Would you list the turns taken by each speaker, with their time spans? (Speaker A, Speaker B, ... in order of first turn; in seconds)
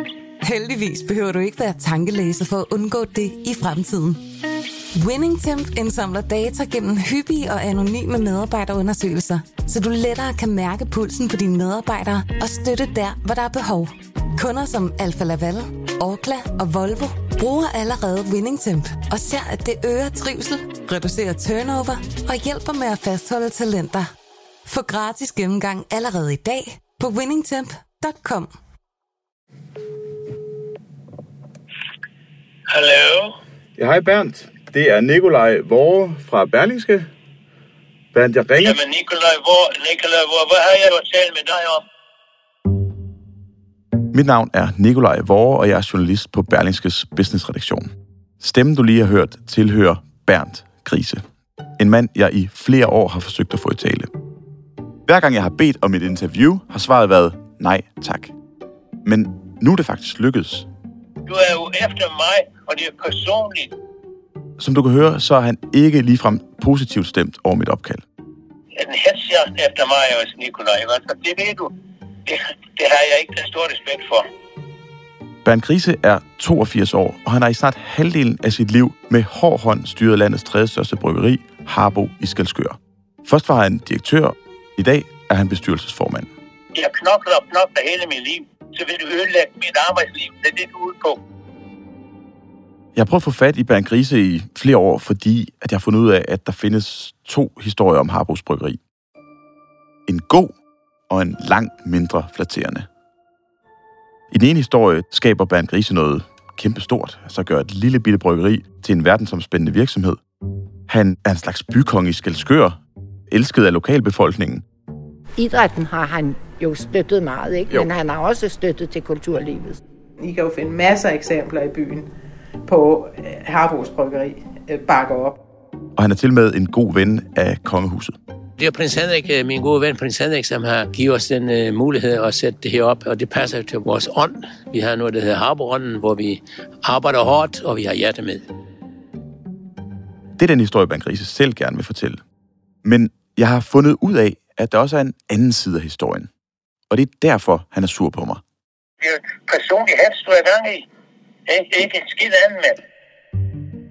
Speaker A: 0.4-4.2, 5.0-24.1, 24.7-28.5
Speaker B: 32.7-33.4, 38.6-41.8, 61.3-63.7, 68.8-71.7, 72.3-74.2, 86.8-91.2, 149.0-150.9, 151.5-152.8
Speaker C: 33.8-37.1, 38.1-38.8, 44.1-51.2, 51.8-54.1, 55.1-58.3, 59.0-60.7, 64.6-68.0, 75.4-86.3, 93.0-98.8, 100.1-100.5, 101.1-102.9, 104.3-110.2, 110.9-112.8, 113.3-114.6, 126.0-128.2, 140.4-142.2, 142.8-146.3, 146.9-148.4
Speaker D: 115.4-119.8
Speaker E: 120.2-122.1, 122.7-125.4
Speaker F: 128.6-138.5